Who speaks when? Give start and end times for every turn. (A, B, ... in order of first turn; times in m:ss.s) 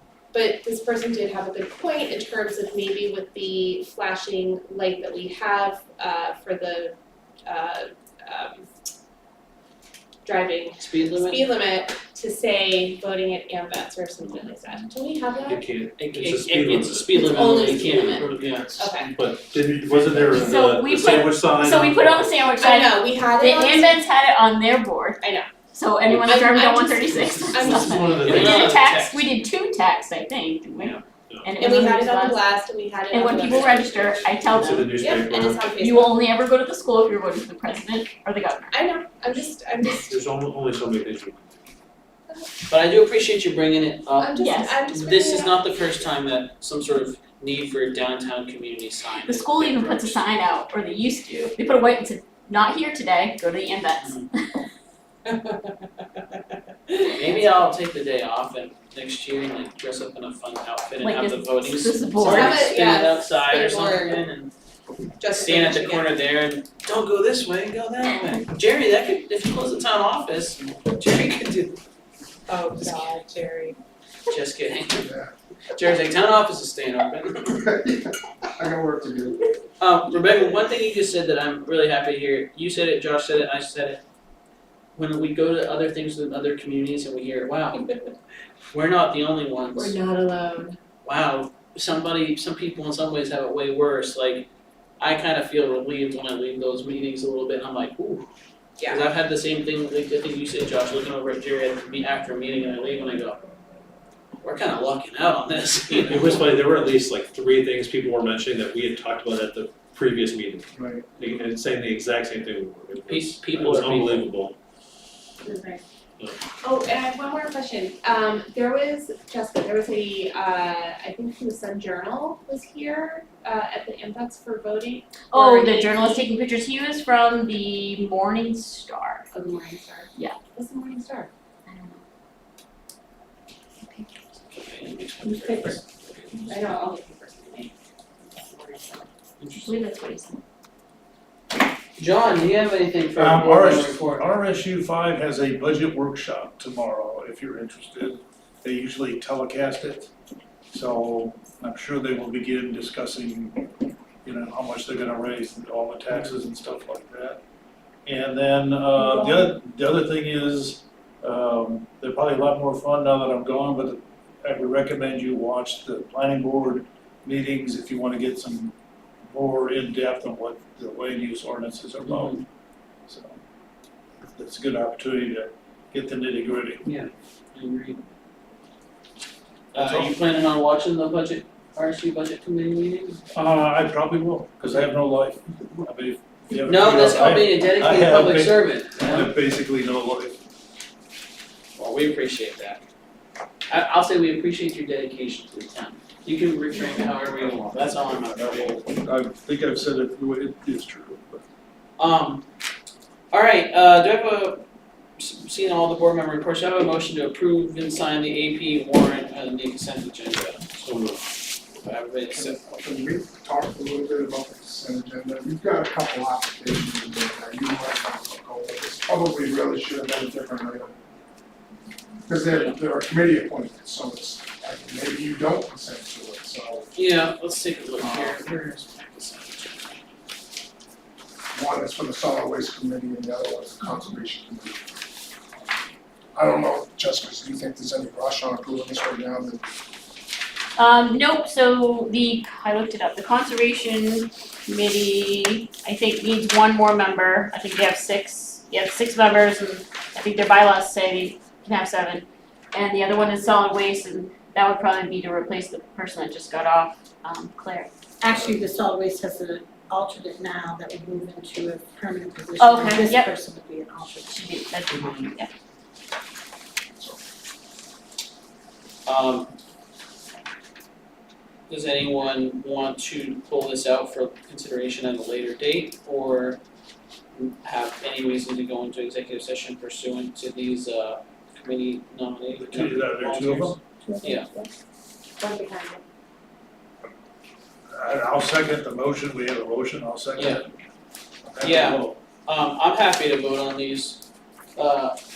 0:00.3-0:08.7 A
0:10.2-0:15.6 A
0:10.8-0:11.5 B
0:15.4-0:22.4 C
0:16.0-0:18.7 B
0:17.2-0:18.2 A
0:18.8-0:19.1 A
0:20.3-0:32.4 D
0:22.6-0:24.0 A
0:25.2-0:25.5 A
0:26.1-0:28.7 A
0:27.3-0:28.5 C
0:28.2-0:29.3 B
0:30.8-0:31.6 C
0:31.6-0:34.3 A
0:33.1-0:35.0 D
0:34.5-0:35.7 C
0:35.0-0:36.3 A
0:35.7-0:38.8 D
0:38.7-0:40.2 A
0:40.1-0:41.6 C
0:42.7-0:44.3 B
0:44.2-0:45.7 A
0:44.3-0:44.8 D
0:44.9-0:50.2 B
0:49.2-0:54.6 D
0:54.0-0:54.3 B
0:55.3-0:55.7 A
0:56.9-0:57.1 A
0:57.1-1:04.5 B
1:01.0-1:02.7 D
1:02.2-1:04.2 A
1:05.2-1:06.1 A
1:05.3-1:11.8 B
1:12.5-1:13.8 A
1:12.8-1:13.1 B
1:14.3-1:15.1 B
1:15.0-1:15.3 E
1:15.7-1:17.6 B
1:17.5-1:19.4 E
1:19.8-1:24.0 B
1:24.9-1:27.8 B
1:27.8-1:28.1 A
1:28.7-1:30.0 B
1:29.7-1:30.8 A
1:31.0-1:34.5 B
1:35.0-1:38.3 B
1:38.8-1:39.0 A
1:38.9-1:43.4 B
1:44.4-1:46.5 B
1:46.1-1:54.5 C
1:50.7-1:51.0 E
1:53.0-1:54.3 B
1:55.4-1:55.8 A
1:56.6-2:06.2 A
2:05.3-2:09.3 D
2:09.3-2:11.3 A
2:11.7-2:12.0 D
2:14.5-2:16.5 B
2:16.4-2:19.1 A
2:19.4-2:19.8 B
2:19.6-2:20.4 D
2:22.0-2:24.3 B
2:23.1-2:30.1 F
2:30.7-2:33.6 F
2:34.2-2:37.4 F
2:38.0-2:52.4 F
2:52.0-2:52.4 B
2:53.1-2:53.4 F
2:54.3-2:56.8 F
2:56.8-2:58.0 B
2:59.7-3:03.2 B
2:59.8-3:00.1 F
3:03.3-3:10.4 F
3:06.6-3:09.4 B
3:11.8-3:12.8 B
3:13.7-3:18.9 B
3:18.4-3:21.4 F
3:22.0-3:22.4 B
3:23.3-3:24.6 B
3:25.2-3:30.6 B
3:30.7-3:31.3 C
3:31.8-3:32.7 B
3:32.3-3:41.0 E
3:42.3-3:47.0 E
3:42.5-3:42.8 B
3:46.9-3:50.0 B
3:48.0-3:48.4 E
3:51.5-3:54.9 E
3:56.3-3:59.6 E
4:00.8-4:17.9 D
4:18.2-4:24.3 G
4:22.6-4:23.3 D
4:24.3-4:25.5 D
4:29.0-4:29.5 B
4:31.7-4:36.6 B
4:37.3-4:44.5 B
4:42.6-4:43.8 F
4:44.1-4:44.7 G
4:47.9-4:50.7 F
4:50.4-4:50.6 B
4:51.4-4:52.2 F
4:51.6-4:54.2 B
4:54.7-4:55.2 B